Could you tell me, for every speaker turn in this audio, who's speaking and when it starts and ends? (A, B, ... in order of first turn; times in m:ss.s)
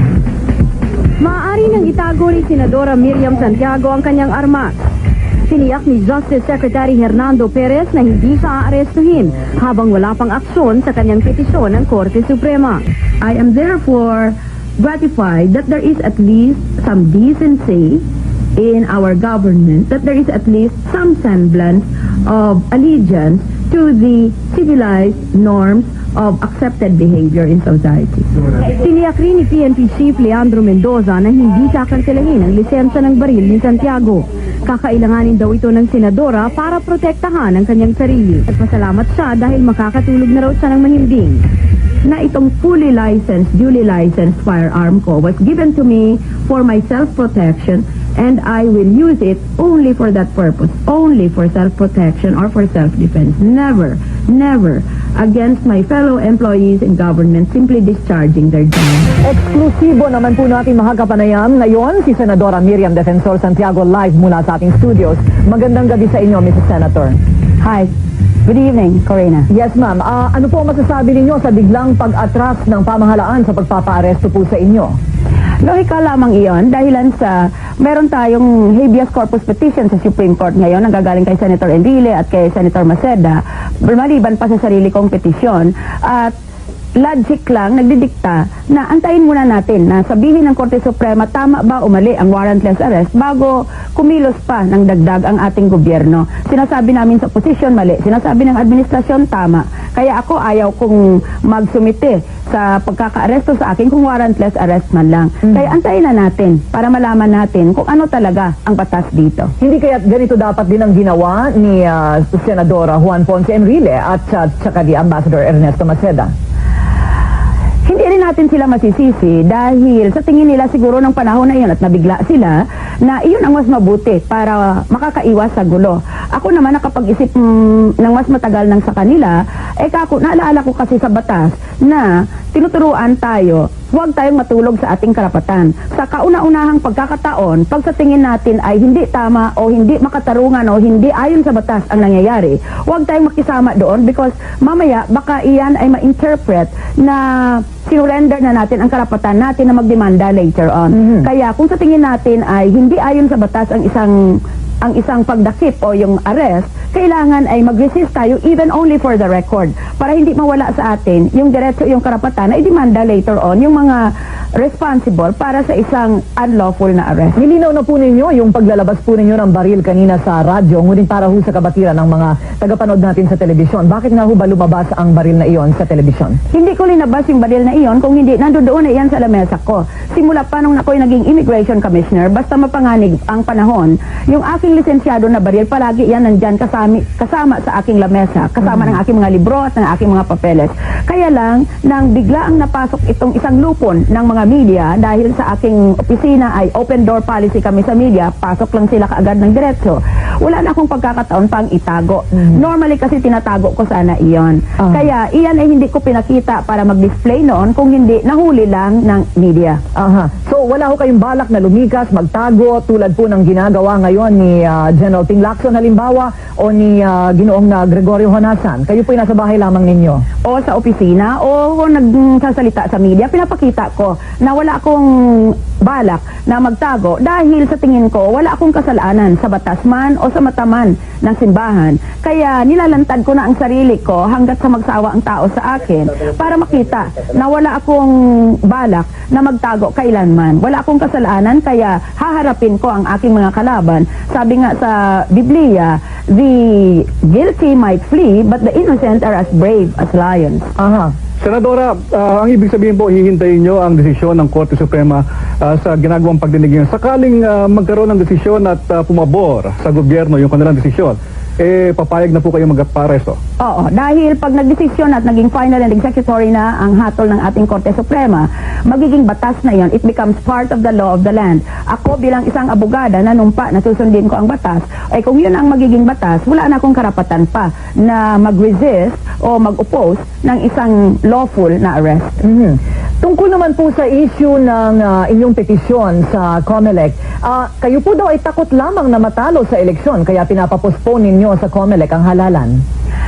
0:01.2-0:04.8 A
0:05.5-0:12.8 A
0:13.2-0:18.0 B
0:18.6-0:28.3 B
0:28.7-0:41.4 A
0:42.0-0:59.2 B
0:59.2-1:07.2 C
1:07.6-1:07.9 B
1:08.4-1:09.5 B
1:09.5-1:15.0 C
1:15.6-1:26.3 B
1:27.0-1:49.5 B
1:49.6-1:56.3 C
1:57.8-2:47.4 B
2:47.4-2:56.4 C
2:56.5-3:29.8 B
3:29.9-3:40.2 C
3:40.4-4:10.7 B
4:10.8-4:11.1 C
4:11.4-4:23.4 D
4:23.6-4:42.4 B
4:42.4-4:52.8 C